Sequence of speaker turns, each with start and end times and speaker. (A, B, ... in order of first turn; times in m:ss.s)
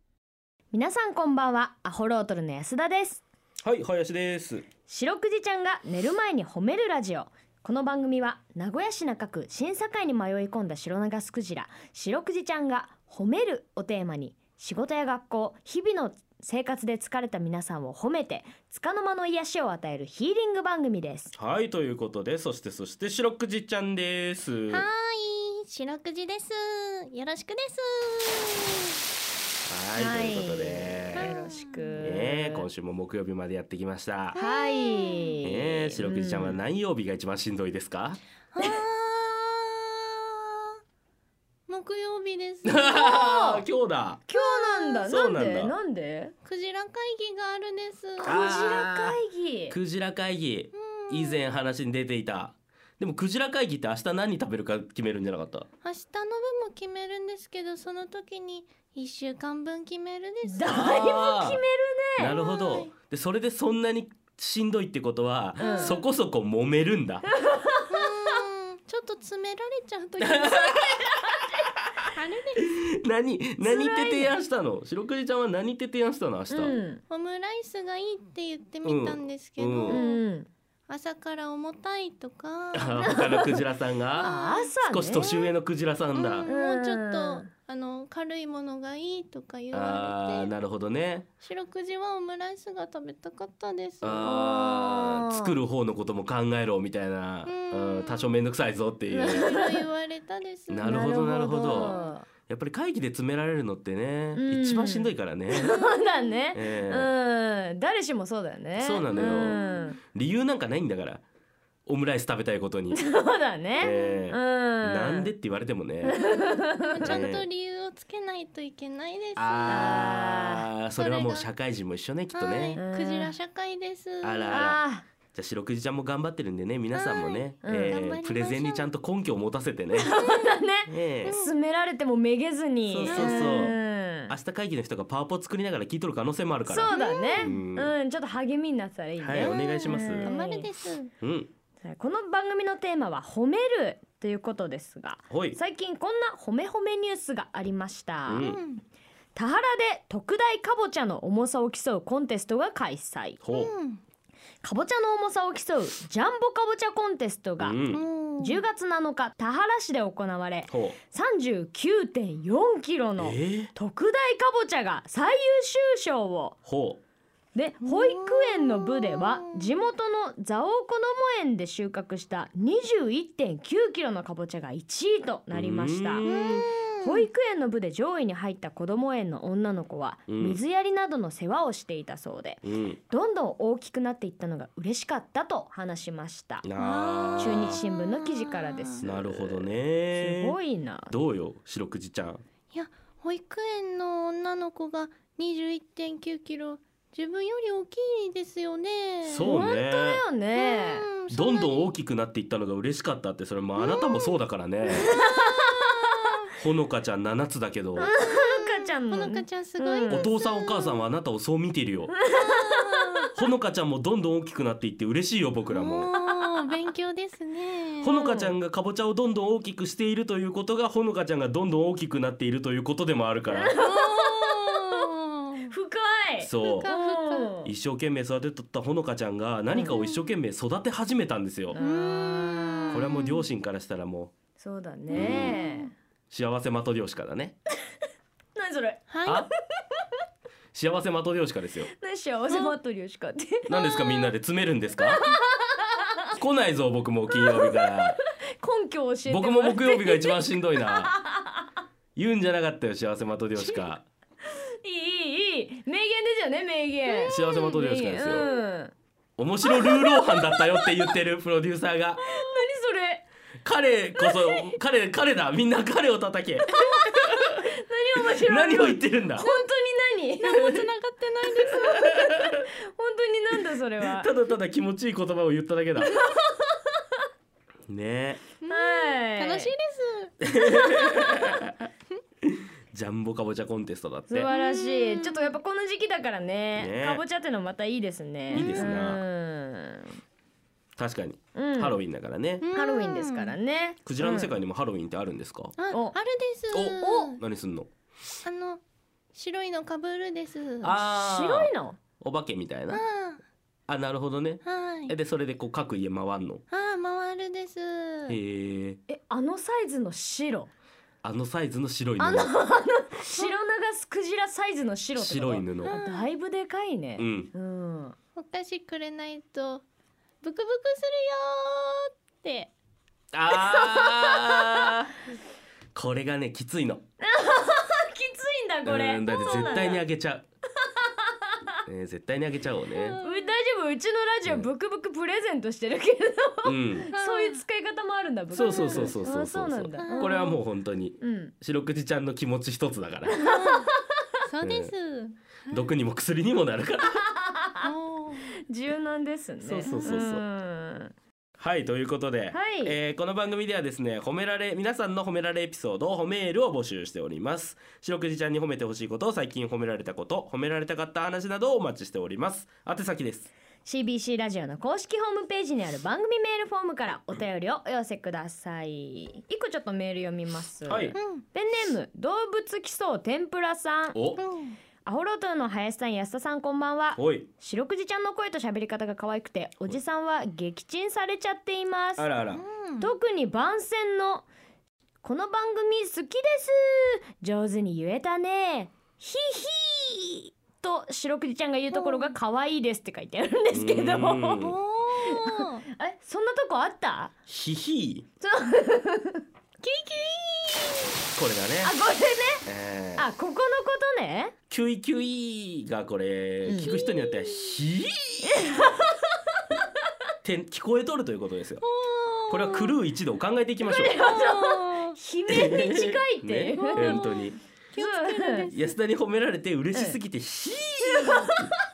0:00.7-0:03.2 A
0:03.6-0:04.6 B
0:04.9-0:21.4 A
0:21.4-0:24.9 B
0:24.7-0:28.9 C
0:29.7-0:31.4 B
0:29.9-0:32.7 A
0:31.1-0:32.0 C
0:32.0-0:34.4 B
0:34.3-0:36.6 A
0:34.3-0:35.4 C
0:35.4-0:38.2 B
0:38.5-0:40.8 C
0:41.7-0:43.0 C
0:42.6-0:44.2 B
0:42.9-0:43.7 A
0:44.3-0:46.3 A
0:44.3-0:45.1 C
0:45.0-0:45.7 B
0:46.4-0:48.8 C
0:48.2-0:49.2 B
0:48.2-0:49.8 A
0:49.7-0:55.7 B
0:50.8-0:51.5 C
0:55.8-1:00.8 C
1:00.4-1:02.4 A
1:00.6-1:01.6 B
1:02.2-1:07.3 B
1:02.2-1:02.9 C
1:05.6-1:06.0 A
1:05.6-1:06.0 C
1:07.4-1:08.1 A
1:07.9-1:11.1 C
1:10.2-1:11.3 B
1:11.1-1:11.5 A
1:12.0-1:16.8 B
1:12.1-1:12.7 C
1:13.6-1:14.4 A
1:16.5-1:17.0 A
1:16.6-1:20.2 C
1:18.8-1:20.0 B
1:19.9-1:20.5 A
1:20.9-1:23.5 C
1:22.8-1:24.3 B
1:23.0-1:23.5 A
1:24.1-1:24.7 C
1:24.2-1:25.5 A
1:24.8-1:26.5 B
1:26.2-1:30.6 C
1:26.5-1:27.5 A
1:29.7-1:31.3 B
1:31.4-1:34.5 C
1:34.0-1:39.5 B
1:34.2-1:35.6 A
1:37.5-1:38.4 C
1:39.1-1:39.8 A
1:39.2-1:42.2 C
1:40.7-1:42.0 B
1:40.8-1:42.3 A
1:42.5-1:45.7 B
1:44.4-1:50.0 A
1:45.6-1:46.4 C
1:46.5-1:47.1 B
1:48.8-1:49.6 B
1:49.1-1:50.0 C
1:50.1-1:51.2 B
1:51.9-1:53.0 B
1:52.9-1:55.3 A
1:53.8-1:56.2 B
1:56.0-1:57.2 A
1:56.2-2:00.2 C
1:57.1-1:57.5 B
1:59.4-2:02.8 B
1:59.7-2:00.7 A
2:01.0-2:01.5 C
2:02.3-2:04.6 C
2:02.8-2:03.3 A
2:04.2-2:04.8 B
2:04.5-2:05.1 A
2:05.3-2:10.1 B
2:06.9-2:08.9 C
2:07.6-2:08.0 A
2:09.9-2:14.3 A
2:10.1-2:10.6 C
2:10.9-2:11.4 B
2:11.2-2:11.5 C
2:12.9-2:13.8 B
2:13.0-2:13.8 C
2:14.3-2:17.9 B
2:16.7-2:20.7 A
2:16.9-2:17.6 C
2:19.2-2:20.3 B
2:19.3-2:21.1 C
2:21.2-2:21.5 B
2:21.8-2:28.5 A
2:25.3-2:25.6 B
2:28.3-2:28.6 B
2:28.4-2:28.8 C
2:29.3-2:33.4 A
2:33.4-2:33.7 B
2:33.5-2:34.0 C
2:34.6-2:37.8 A
2:37.6-2:38.0 B
2:37.9-2:38.7 C
2:38.4-2:46.6 A
2:40.7-2:41.0 B
2:43.2-2:43.7 B
2:46.6-2:47.0 B
2:47.5-2:56.3 A
2:47.8-2:49.8 C
2:55.5-2:56.7 B
2:56.2-2:57.3 C
2:57.0-3:06.7 A
3:00.3-3:00.6 B
3:02.6-3:03.0 B
3:06.6-3:07.8 B
3:06.8-3:09.0 C
3:07.4-3:11.1 A
3:09.0-3:10.6 B
3:11.1-3:12.4 B
3:12.7-3:19.6 C
3:19.2-3:20.2 B
3:19.4-3:21.1 A
3:20.6-3:21.9 C
3:21.3-3:25.1 B
3:23.8-3:24.4 C
3:24.9-3:26.0 A
3:24.9-3:26.5 C
3:26.6-3:28.1 B
3:28.0-3:30.3 A
3:28.0-3:31.1 C
3:30.0-3:32.1 B
3:32.1-3:33.3 A
3:32.3-3:33.3 C
3:33.3-3:36.1 B
3:35.7-3:38.3 C
3:36.2-3:36.7 A
3:38.0-3:43.8 B
3:38.2-3:38.5 A
3:43.5-3:45.1 A
3:43.8-3:45.7 C
3:45.7-3:47.7 A
3:46.4-3:46.9 B
3:46.6-3:47.5 C
3:47.6-3:51.8 B
3:49.8-3:50.3 C
3:51.7-3:53.1 A
3:51.8-3:53.4 C
3:52.9-3:54.3 B
3:54.6-3:55.9 A
3:55.1-3:55.9 C
3:55.2-3:55.6 B
3:56.3-3:57.5 B
3:58.5-3:59.0 A
3:59.1-3:59.5 C
4:00.7-4:01.9 B
4:01.9-4:04.3 A
4:03.7-4:05.2 B
4:05.0-4:06.3 A
4:06.3-4:08.2 B
4:07.3-4:11.6 A
4:09.3-4:11.1 B
4:12.2-4:14.0 B
4:14.5-4:18.9 A
4:17.1-4:17.6 C
4:17.3-4:18.5 B
4:19.4-4:22.2 B
4:19.6-4:21.2 A
4:22.2-4:23.2 A
4:23.6-4:27.6 B
4:24.2-4:24.7 A
4:26.8-4:30.7 A
4:28.2-4:29.5 B
4:29.4-4:29.7 C
4:30.4-4:31.9 C
4:31.7-4:32.6 B
4:31.7-4:34.3 A
4:34.0-4:36.2 B
4:36.0-4:37.0 A
4:37.9-4:38.4 B
4:38.6-4:41.5 C
4:38.7-4:39.7 A
4:40.5-4:41.7 B
4:42.4-4:44.5 B
4:44.3-4:50.2 A
4:44.5-4:45.6 C
4:46.8-4:47.2 B
4:48.5-4:48.9 C
4:48.5-4:49.2 B
4:51.0-4:52.6 B
4:51.5-4:52.0 A
4:52.6-4:53.6 C
4:52.8-4:54.6 A
4:54.1-4:55.8 B
4:55.8-4:57.4 C
4:56.7-4:57.9 B
4:58.4-4:58.8 C
4:59.3-5:01.0 C
5:00.8-5:03.0 B
5:01.1-5:02.0 A
5:02.9-5:03.4 C
5:03.9-5:06.6 B
5:04.6-5:05.1 C
5:06.7-5:08.4 C
5:08.3-5:09.0 B
5:09.1-5:10.7 A
5:11.2-5:12.5 B
5:12.2-5:18.2 A
5:15.2-5:15.9 B
5:15.8-5:16.3 C
5:17.2-5:17.5 B
5:18.4-5:19.8 C
5:20.4-5:22.7 C
5:23.3-5:25.1 B
5:23.5-5:24.9 A
5:25.9-5:27.0 B
5:27.2-5:30.0 A
5:28.9-5:30.4 B
5:31.0-5:31.6 A
5:31.9-5:33.2 B
5:32.9-5:33.6 C
5:33.2-5:40.6 A
5:36.6-5:37.1 B
5:37.1-5:37.6 C
5:38.5-5:39.2 C
5:38.6-5:43.4 B
5:40.0-5:40.6 C
5:41.2-5:41.5 A
5:43.4-5:43.9 C
5:43.4-5:44.2 A
5:44.4-5:45.9 C
5:44.6-5:44.9 B
5:45.7-5:47.3 B
5:47.1-5:47.9 A
5:47.8-5:48.6 C
5:48.7-5:51.1 A
5:49.6-5:50.4 B
5:51.6-6:03.5 B
5:52.5-5:53.0 A
6:03.8-6:14.2 A
6:10.9-6:11.2 B
6:11.2-6:11.4 C
6:14.1-6:14.4 B
6:14.4-6:14.8 C
6:15.0-6:22.3 A
6:17.2-6:17.5 B
6:22.2-6:22.6 B
6:22.5-6:23.1 C
6:23.0-6:24.5 A
6:25.2-6:37.3 A
6:31.9-6:32.3 C
6:33.7-6:34.8 B
6:34.6-6:35.8 C
6:37.5-6:38.2 B
6:38.4-6:39.4 A
6:39.8-6:41.2 C
6:41.4-6:41.9 B
6:41.8-6:44.5 A
6:42.6-6:43.2 B
6:44.7-6:48.9 B
6:46.6-6:47.0 A
6:46.7-6:47.8 C
6:48.4-6:49.2 A
6:50.4-6:51.8 B
6:51.8-6:53.0 C
6:52.5-6:54.2 B
6:53.8-6:57.2 A
6:54.2-6:55.2 C
6:55.5-6:57.6 B
6:56.8-6:58.9 C
6:58.0-6:58.7 A
6:58.7-7:01.7 B
6:59.9-7:00.2 A